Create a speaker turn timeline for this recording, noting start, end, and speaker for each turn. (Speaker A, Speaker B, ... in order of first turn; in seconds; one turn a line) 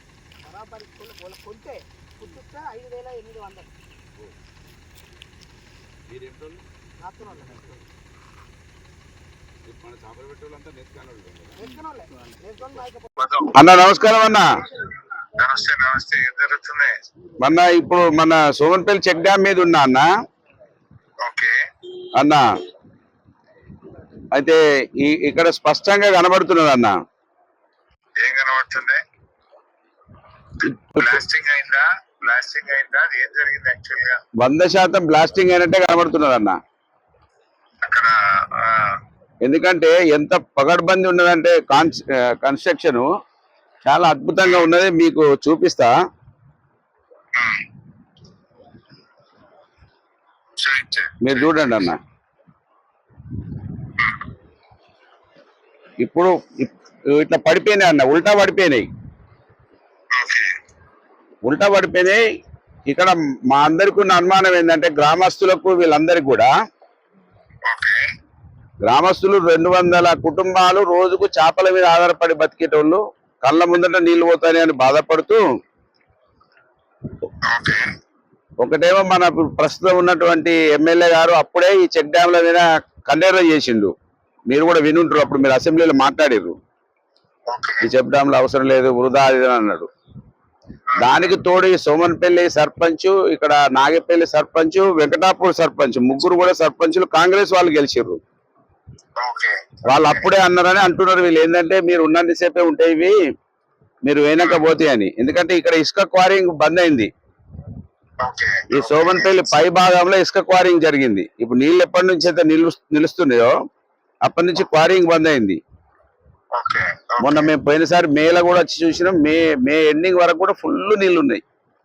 Speaker A: 0.4-3.7
Speaker B: 6.1-6.6
Speaker A: 7.0-7.8
Speaker B: 9.6-11.7
Speaker A: 11.6-13.1
Speaker C: 13.2-13.5
Speaker B: 13.5-14.5
Speaker C: 15.3-16.9
Speaker B: 17.4-20.1
Speaker C: 21.2-21.5
Speaker B: 22.2-22.4
Speaker B: 24.3-26.9
Speaker C: 28.2-29.0
Speaker C: 30.6-34.2
Speaker B: 34.4-36.6
Speaker C: 37.8-39.0
Speaker B: 39.4-43.1
Speaker B: 43.9-45.9
Speaker C: 47.4-47.6
Speaker C: 50.6-51.6
Speaker B: 51.2-52.0
Speaker B: 56.0-58.9
Speaker C: 60.1-60.5
Speaker B: 61.5-62.2
Speaker B: 62.9-66.5
Speaker C: 67.7-68.0
Speaker B: 68.8-75.4
Speaker C: 77.5-77.8
Speaker B: 78.6-83.9
Speaker B: 84.5-86.5
Speaker C: 87.5-87.8
Speaker B: 87.8-89.9
Speaker C: 91.0-91.3
Speaker B: 91.0-98.2
Speaker C: 99.2-100.3
Speaker B: 99.9-103.1
Speaker B: 104.0-107.1
Speaker C: 104.4-104.6
Speaker C: 108.2-109.5
Speaker B: 108.7-113.5
Speaker B: 114.2-115.6
Speaker C: 116.5-117.5
Speaker B: 117.2-121.4